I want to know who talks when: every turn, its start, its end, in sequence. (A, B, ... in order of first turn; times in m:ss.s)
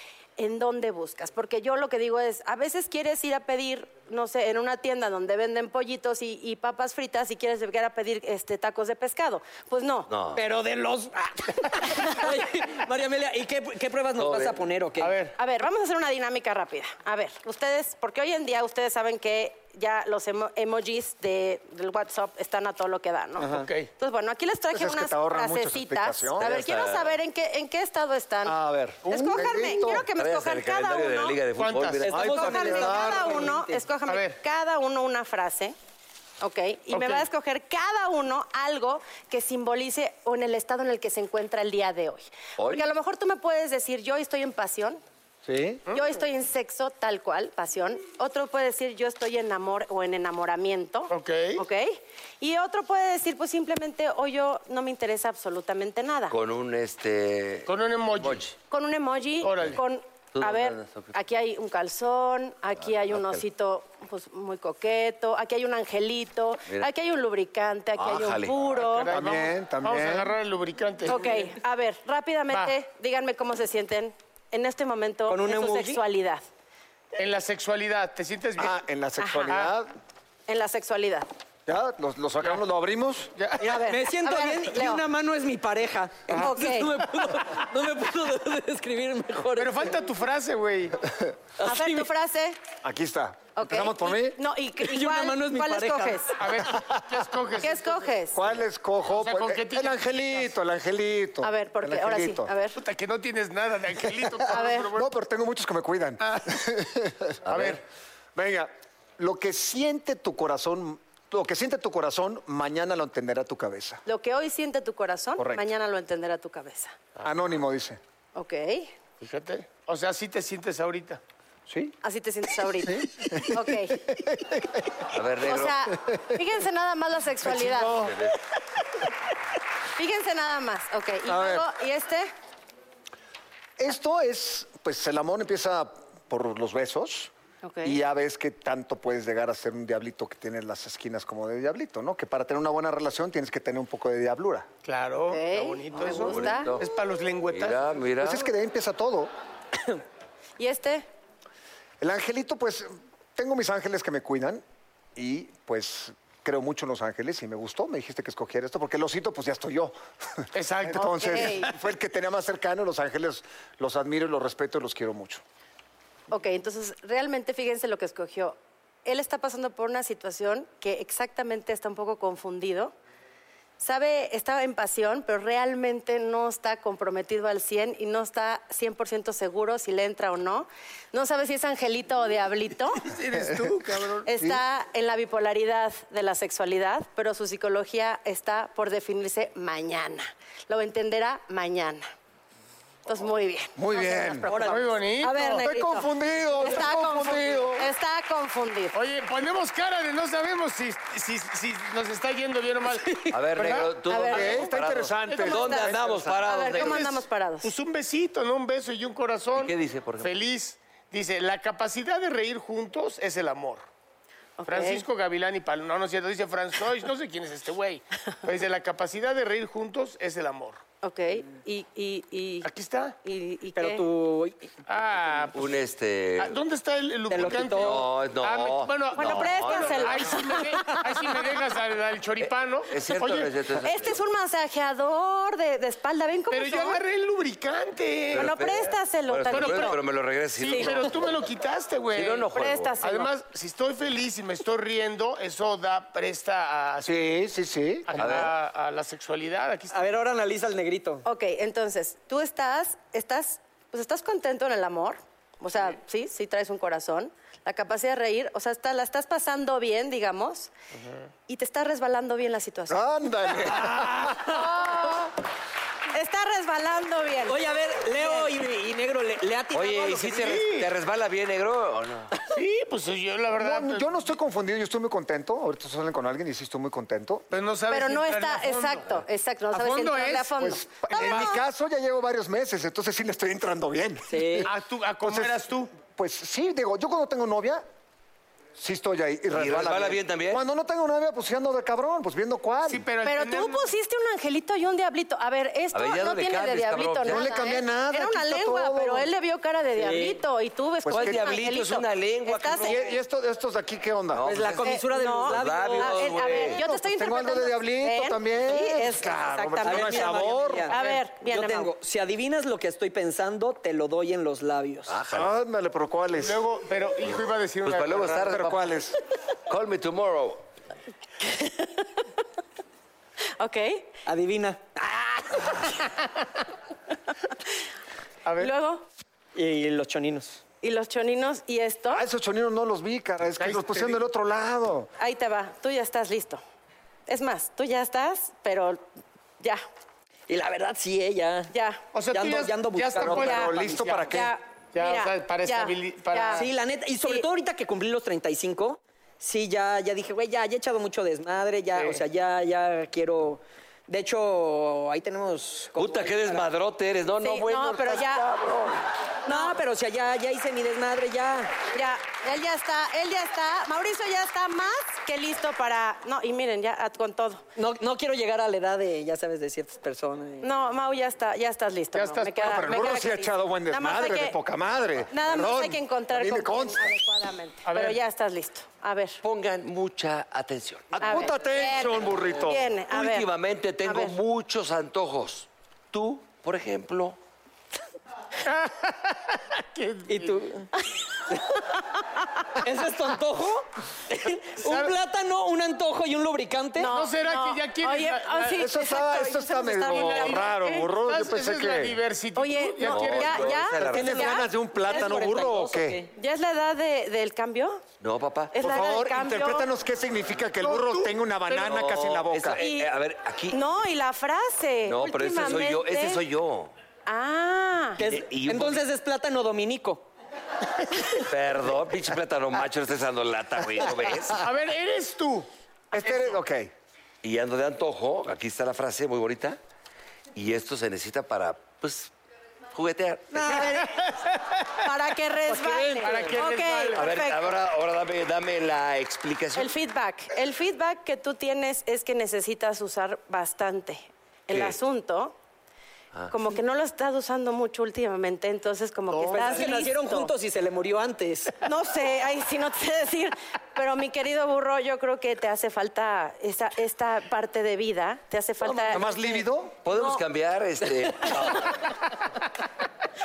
0:00.4-0:10.1 A
0:10.1-0:10.4 B
0:10.4-0:15.2 C
0:14.2-0:14.6 B
0:15.0-0:15.4 D
0:15.4-0:28.6 A
0:23.4-0:23.6 C
0:23.5-0:23.9 D
0:24.7-0:26.5 E
0:26.4-0:27.2 B
0:28.5-0:30.0 E
0:29.1-0:31.4 A
0:30.2-0:32.3 B
0:31.6-0:32.2 D
0:32.0-0:33.8 C
0:32.1-0:33.4 E
0:32.2-0:35.8 A
0:34.1-0:34.4 D
0:36.4-0:45.0 A
0:36.9-0:37.2 D
0:42.6-0:42.9 B
0:45.5-0:45.8 E
0:45.9-0:56.4 A
0:51.1-0:51.6 D
0:56.3-0:58.5 B
0:57.7-0:58.4 D
0:58.7-1:09.1 A
0:59.4-0:59.8 D
1:00.4-1:01.1 B
1:02.8-1:03.4 B
1:08.0-1:08.6 B
1:08.8-1:11.5 D
1:09.1-1:10.3 E
1:11.1-1:16.4 A
1:15.3-1:16.0 C
1:17.2-1:18.8 D
1:18.6-1:19.9 E
1:19.2-1:19.5 A
1:20.5-1:21.3 A
1:21.7-1:23.3 E
1:23.4-1:23.7 D
1:23.6-1:25.0 A
1:23.6-1:29.8 C
1:26.3-1:27.0 A
1:29.6-1:31.0 D
1:31.6-1:32.1 C
1:31.6-1:32.6 A
1:32.8-1:34.4 E
1:33.6-1:36.4 A
1:34.8-1:36.4 C
1:36.4-1:38.1 D
1:37.6-1:38.4 A
1:38.3-1:42.5 E
1:39.1-1:40.5 D
1:41.4-1:42.8 A
1:42.8-1:45.1 D
1:44.5-1:44.9 A
1:44.9-1:47.8 E
1:47.5-1:47.8 D
1:48.4-1:54.0 E
1:54.1-1:57.0 A
1:55.4-1:55.6 E
1:57.2-1:58.0 E
1:58.4-1:58.9 A
1:59.2-2:01.2 D
2:01.7-2:01.9 E
2:02.0-2:04.1 A
2:02.8-2:05.1 E
2:05.1-2:05.9 B
2:05.4-2:08.1 A
2:06.0-2:06.4 E
2:07.4-2:08.2 E
2:08.0-2:08.4 B
2:10.0-2:12.3 A
2:11.3-2:11.7 E
2:13.8-2:17.3 E
2:17.6-2:18.0 A
2:17.8-2:24.7 E
2:24.8-2:27.8 D
2:25.3-2:26.8 A
2:25.9-2:26.9 B
2:27.5-2:28.5 B
2:28.2-2:29.3 E
2:30.6-2:31.1 A
2:32.0-2:34.6 E
2:35.2-2:45.4 E
2:40.5-2:41.7 D
2:41.0-2:41.7 A
2:46.3-2:52.9 A
2:53.8-3:03.1 A
3:03.0-3:04.3 D
3:04.2-3:12.1 A
3:13.1-3:19.0 A
3:13.8-3:14.5 E
3:14.5-3:15.6 C
3:14.6-3:15.6 D
3:15.6-3:17.9 E
3:18.9-3:24.6 D
3:23.3-3:27.1 B
3:24.1-3:24.7 A
3:24.3-3:26.5 E
3:25.3-3:25.8 D
3:25.4-3:25.9 A
3:26.4-3:27.7 A
3:26.7-3:33.8 D
3:29.6-3:30.3 B
3:34.6-3:35.0 A
3:34.7-3:40.8 D
3:41.0-3:42.7 A
3:42.6-3:43.2 D
3:43.2-3:44.0 A
3:43.8-3:44.7 C
3:44.9-3:45.7 D
3:45.5-3:46.6 B
3:46.4-3:53.5 D
3:47.3-3:48.0 C
3:47.4-3:50.4 B
3:49.1-3:51.0 A
3:52.4-3:54.2 B
3:53.8-3:57.0 A
3:56.5-3:58.5 D
3:58.3-4:01.5 B
3:58.3-4:00.0 A
3:59.5-4:00.0 D
4:00.6-4:02.5 D
4:02.1-4:03.0 B
4:02.5-4:03.3 A
4:03.0-4:07.2 D
4:07.0-4:08.1 E
4:08.1-4:10.0 D
4:08.2-4:08.5 B
4:09.9-4:11.2 C
4:11.2-4:20.7 A
4:21.5-4:23.7 A
4:22.9-4:24.4 E
4:24.4-4:25.3 A
4:26.1-4:28.6 A
4:27.5-4:30.6 C
4:29.7-4:32.3 B
4:30.4-4:30.9 D
4:32.5-4:34.2 D
4:33.6-4:37.5 E
4:37.5-4:39.1 D
4:37.9-4:41.6 A
4:39.7-4:40.6 D
4:40.6-4:44.7 E
4:41.2-4:41.5 D
4:44.3-4:44.7 C
4:44.7-4:45.9 D
4:45.2-4:47.8 E
4:48.8-4:53.0 E
4:49.5-4:50.6 B
4:52.9-4:53.9 D
4:53.2-5:03.0 A
4:55.9-4:57.5 B
4:57.3-4:59.3 E
5:00.0-5:00.4 C
5:01.0-5:01.4 E
5:01.1-5:03.1 B
5:02.8-5:04.5 E
5:04.3-5:06.8 B
5:04.4-5:06.6 C
5:04.8-5:11.9 A
5:06.8-5:10.9 E
5:09.8-5:15.2 C
5:15.1-5:15.5 B
5:15.3-5:16.6 E
5:16.4-5:18.5 D
5:17.3-5:19.0 B
5:18.5-5:19.2 E
5:19.7-5:20.6 B
5:21.4-5:22.0 A
5:23.6-5:24.1 A
5:24.3-5:25.7 C
5:28.4-5:28.7 D
5:28.6-5:29.0 A
5:29.6-5:30.6 C
5:30.8-5:32.2 A
5:32.1-5:35.1 E
5:33.6-5:34.2 D
5:35.2-5:36.6 A
5:37.3-5:39.0 A
5:40.5-5:41.7 C
5:41.7-5:42.0 A
5:42.1-5:44.3 D
5:42.3-5:44.0 C
5:43.2-5:44.5 E
5:43.3-5:43.7 A
5:44.3-5:46.7 A
5:45.0-5:46.7 D
5:46.6-5:56.6 C
5:52.0-5:52.2 D
5:56.0-5:58.3 B
5:57.4-5:58.5 A
5:59.5-5:59.8 A
5:59.5-6:01.8 C
6:01.9-6:07.6 A
6:07.8-6:10.7 C
6:10.6-6:14.6 A
6:12.1-6:12.9 D
6:12.6-6:17.1 E
6:15.3-6:19.4 A
6:17.9-6:18.2 D
6:19.4-6:21.2 B
6:21.1-6:22.9 E
6:21.2-6:23.5 A
6:23.1-6:27.4 B
6:24.0-6:24.4 A
6:28.6-6:30.8 D
6:30.3-6:30.9 C
6:32.8-6:37.1 C
6:34.8-6:35.1 D
6:37.0-6:41.1 A
6:37.1-6:38.8 D
6:38.8-6:42.2 E
6:40.1-6:44.1 D
6:42.6-6:45.3 A
6:43.0-6:44.5 B
6:44.1-6:46.2 E
6:44.1-6:46.3 C
6:46.4-6:48.0 A
6:48.2-6:48.8 B
6:48.7-6:49.9 A
6:48.8-6:52.8 E
6:50.8-6:51.9 D
6:51.7-6:53.8 B
6:52.8-6:53.1 A
6:53.7-6:56.4 A
6:55.1-6:56.9 B
6:57.3-6:58.2 A
6:58.2-7:00.2 C
6:58.2-6:59.0 B
7:01.4-7:04.6 B
7:04.5-7:06.6 D
7:06.1-7:06.9 E
7:07.4-7:09.8 B
7:10.5-7:12.3 B
7:12.9-7:13.9 B
7:13.6-7:14.0 C
7:13.7-7:14.0 A
7:13.7-7:14.7 D
7:15.0-7:17.7 A
7:15.7-7:17.2 D
7:17.2-7:19.9 B
7:19.8-7:25.5 A
7:24.7-7:25.0 B
7:26.5-7:30.5 A
7:29.3-7:31.8 C
7:29.5-7:29.9 D
7:31.8-7:39.5 A
7:38.9-7:39.2 C
7:39.1-7:39.9 E
7:40.0-7:42.1 B
7:40.1-7:40.4 A